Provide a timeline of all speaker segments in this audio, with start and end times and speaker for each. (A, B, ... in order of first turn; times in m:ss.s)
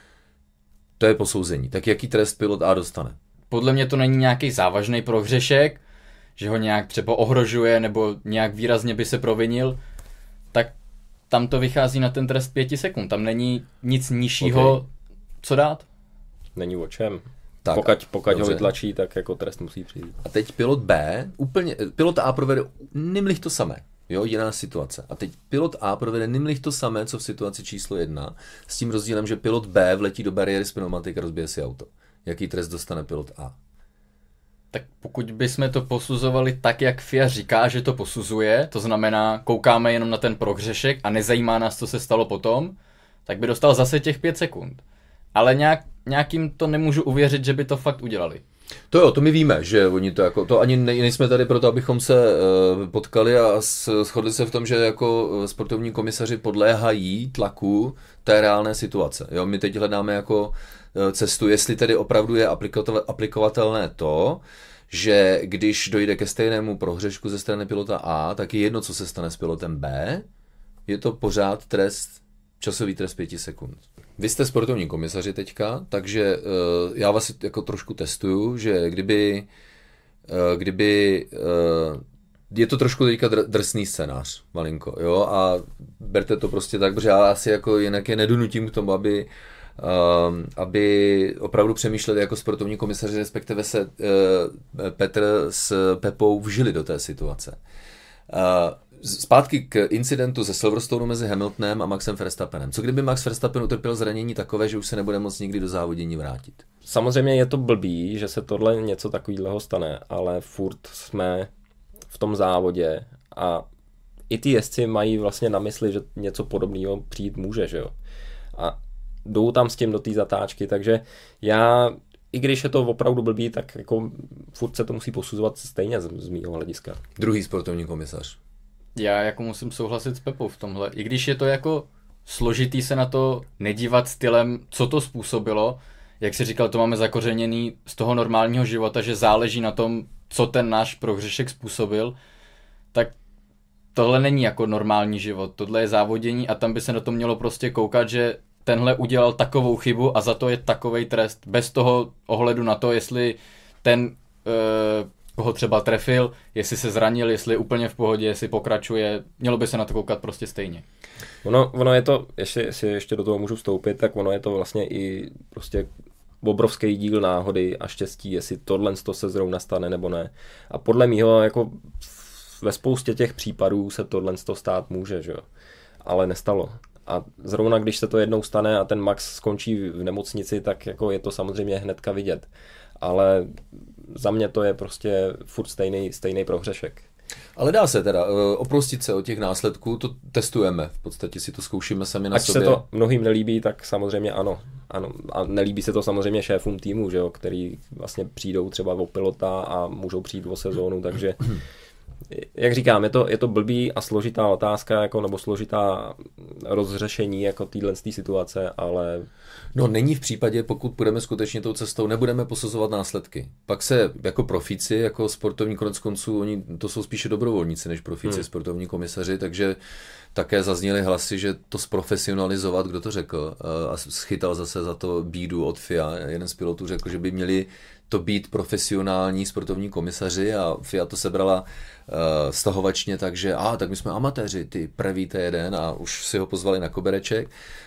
0:01.0-0:03.2 A
0:03.5-0:05.8 B
0:06.4-0:09.8 B
0:11.3-0:14.9 B
0:14.4-0:14.8 A
0:15.4-0:15.8 B
0:16.5-0:20.2 C
0:17.6-0:18.7 A
0:20.2-0:33.6 A
0:34.7-0:42.7 B
0:43.3-0:44.8 B
0:45.3-0:48.4 B
0:48.9-1:10.2 A
1:10.9-1:19.5 A
1:20.3-1:37.6 A
1:38.3-1:46.6 A
1:46.8-1:51.5 C
1:52.1-1:53.6 C
1:54.3-1:57.9 C
1:58.5-2:07.0 C
2:07.2-2:08.4 A
2:09.0-2:22.2 B
2:23.9-2:40.8 B
2:41.4-2:45.9 C
2:46.4-2:55.4 C
2:56.0-3:02.5 C
3:03.0-3:07.0 C
3:07.6-3:12.8 A
3:12.3-3:21.5 C
3:22.3-3:29.3 C
3:29.7-3:39.8 A
3:40.3-3:57.5 A